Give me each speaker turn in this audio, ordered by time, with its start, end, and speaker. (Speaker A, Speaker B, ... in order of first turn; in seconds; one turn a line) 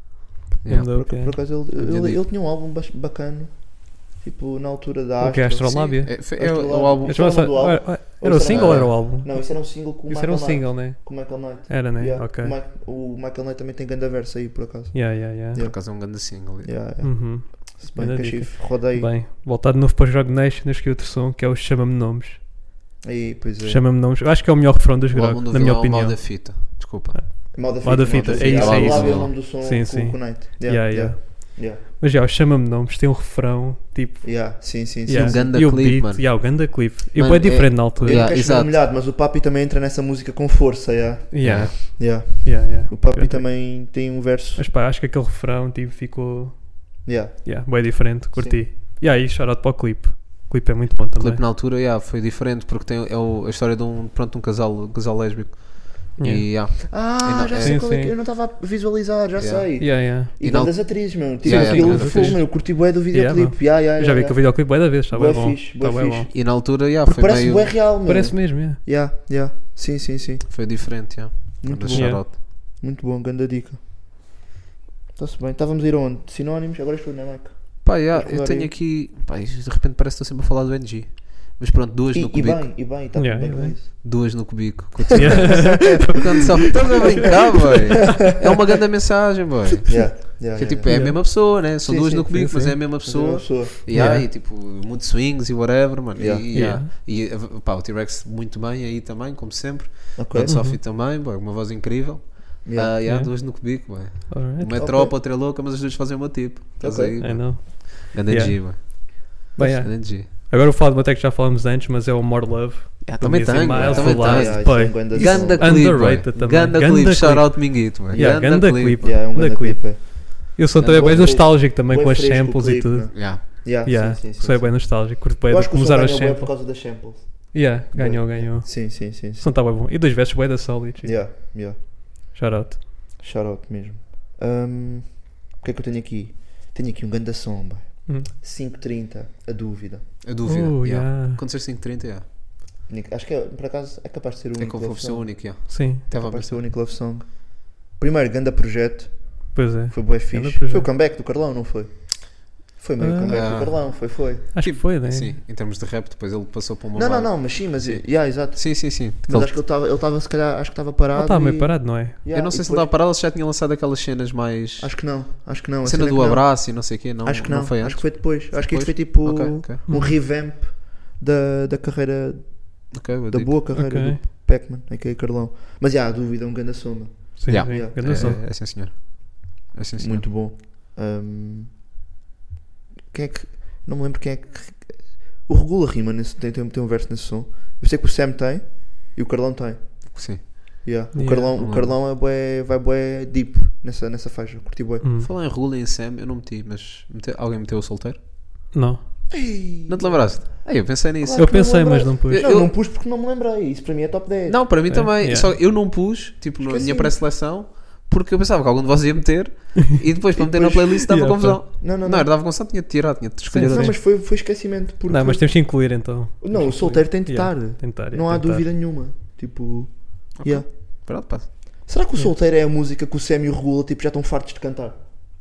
Speaker A: 0.6-1.4
Speaker B: 0.6-2.2
Speaker C: 0.7-19.1
Speaker A: 5.2-12.6
Speaker B: 6.0-7.7
Speaker B: 8.4-9.0
Speaker A: 14.9-15.6
Speaker B: 15.5-16.7
Speaker A: 17.0-22.4
Speaker C: 23.0-23.8
Speaker A: 23.6-38.3
Speaker B: 25.1-27.4
Speaker C: 27.5-31.8
Speaker B: 28.1-29.3
Speaker C: 34.2-35.5
Speaker B: 35.1-38.7
Speaker C: 38.0-44.7
Speaker A: 41.3-44.0
Speaker B: 41.4-41.7
Speaker A: 44.5-51.4
Speaker C: 47.0-48.6
Speaker B: 51.2-57.8
Speaker A: 56.2-56.9
Speaker C: 56.9-71.1
Speaker A: 57.6-58.1
Speaker B: 59.4-62.4
Speaker A: 59.8-60.3
Speaker A: 61.4-66.3
Speaker B: 66.3-67.8
Speaker A: 68.0-68.8
Speaker B: 70.5-72.3
Speaker C: 71.6-73.8
Speaker A: 71.9-72.2
Speaker C: 75.2-78.7
Speaker B: 77.8-82.8
Speaker C: 82.1-84.0
Speaker A: 83.1-83.7
Speaker B: 84.0-110.3
Speaker A: 85.1-86.2
Speaker C: 85.2-86.2
Speaker C: 89.8-93.7
Speaker A: 90.8-91.5
Speaker A: 92.3-92.7
Speaker A: 93.9-94.3
Speaker C: 96.2-96.7
Speaker A: 96.5-96.9
Speaker C: 100.2-100.6
Speaker A: 100.5-100.8
Speaker C: 102.6-102.9
Speaker A: 103.0-104.7
Speaker C: 104.7-105.1
Speaker C: 106.8-107.4
Speaker A: 107.2-126.8
Speaker C: 109.5-109.8
Speaker B: 113.0-119.1
Speaker C: 113.7-116.1
Speaker C: 118.1-129.5
Speaker B: 123.1-123.4
Speaker A: 127.5-131.5
Speaker C: 131.0-131.8
Speaker A: 132.3-132.8
Speaker C: 133.2-140.1
Speaker B: 140.2-142.2
Speaker A: 140.4-141.4
Speaker C: 142.9-154.5
Speaker B: 144.6-146.6
Speaker A: 145.7-146.0
Speaker A: 149.5-150.9
Speaker A: 153.0-153.9
Speaker B: 153.3-159.6
Speaker A: 154.5-155.4
Speaker C: 156.9-162.9
Speaker A: 161.1-162.2
Speaker B: 162.3-165.3
Speaker C: 164.8-178.4
Speaker B: 165.8-169.8
Speaker A: 169.9-170.2
Speaker B: 172.9-173.5
Speaker A: 173.7-174.2
Speaker A: 177.4-178.4
Speaker B: 177.5-180.3
Speaker C: 180.0-181.7
Speaker C: 183.1-195.1
Speaker B: 190.1-190.9
Speaker A: 191.1-191.5
Speaker B: 191.6-191.9
Speaker A: 195.0-195.3
Speaker B: 195.2-198.2
Speaker A: 198.7-199.0
Speaker C: 199.3-204.9
Speaker B: 199.9-202.7
Speaker A: 201.3-202.5
Speaker B: 204.5-213.9
Speaker A: 204.9-205.5
Speaker C: 206.6-207.2
Speaker C: 210.3-211.1
Speaker A: 211.1-211.6
Speaker C: 211.8-212.3
Speaker A: 213.5-214.4
Speaker C: 213.7-225.0
Speaker A: 215.1-218.7
Speaker B: 220.3-221.8